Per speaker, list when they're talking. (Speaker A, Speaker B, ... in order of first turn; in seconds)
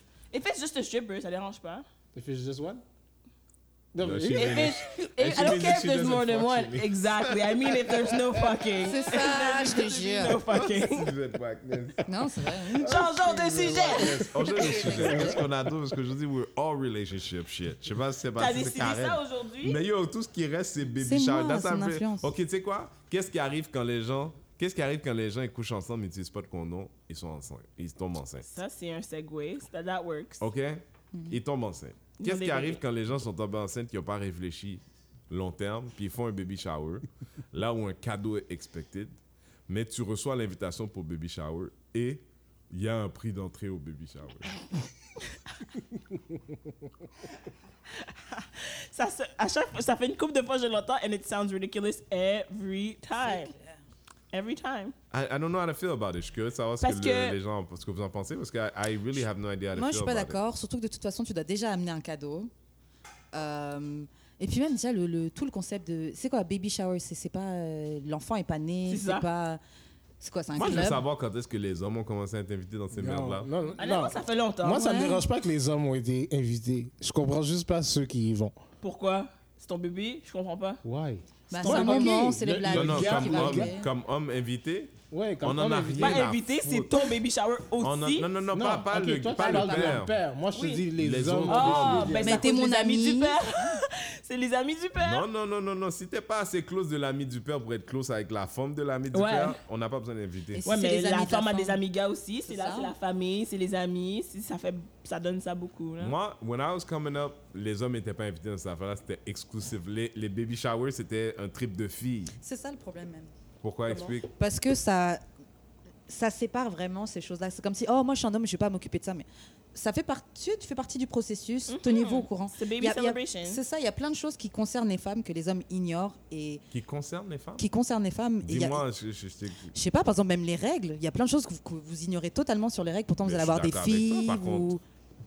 Speaker A: 0.3-1.8, 4.3-11.1, 12.7-15.1, 18.4-19.8, 28.4-30.4, 32.2-32.8, 47.9-53.5, 54.3-54.9, 56.8-57.4, 68.9-69.3, 73.8-74.9, 78.8-80.8, 81.6-82.2, 86.0-88.3, 90.5-90.8, 91.5-95.2, 99.1-99.6, 100.6-106.1, 113.9-114.1, 121.7-123.6
Speaker B: 2.1-2.8, 3.9-4.8, 12.8-15.5, 72.9-78.5, 80.8-83.8, 85.1-86.3, 88.5-92.5
Speaker C: 4.0-8.6, 10.5-12.0, 13.7-28.5, 30.4-44.5, 55.1-60.4, 70.5-73.5, 82.7-87.0, 87.8-90.1, 91.0-92.2, 95.0-100.7, 106.0-112.3, 113.6-114.3, 126.7-127.6, 128.4-129.7, 133.2-134.7
Speaker D: 8.8-10.4, 12.0-14.2, 15.0-15.3, 21.0-22.3, 53.2-53.8, 59.7-62.5, 63.3-69.6, 70.2-71.0, 74.7-75.2, 81.5-83.9, 89.3-90.0, 92.2-93.8, 100.5-101.8, 102.5-102.9, 112.4-113.3, 114.3-115.2, 116.1-126.6, 127.6-128.8, 129.7-134.8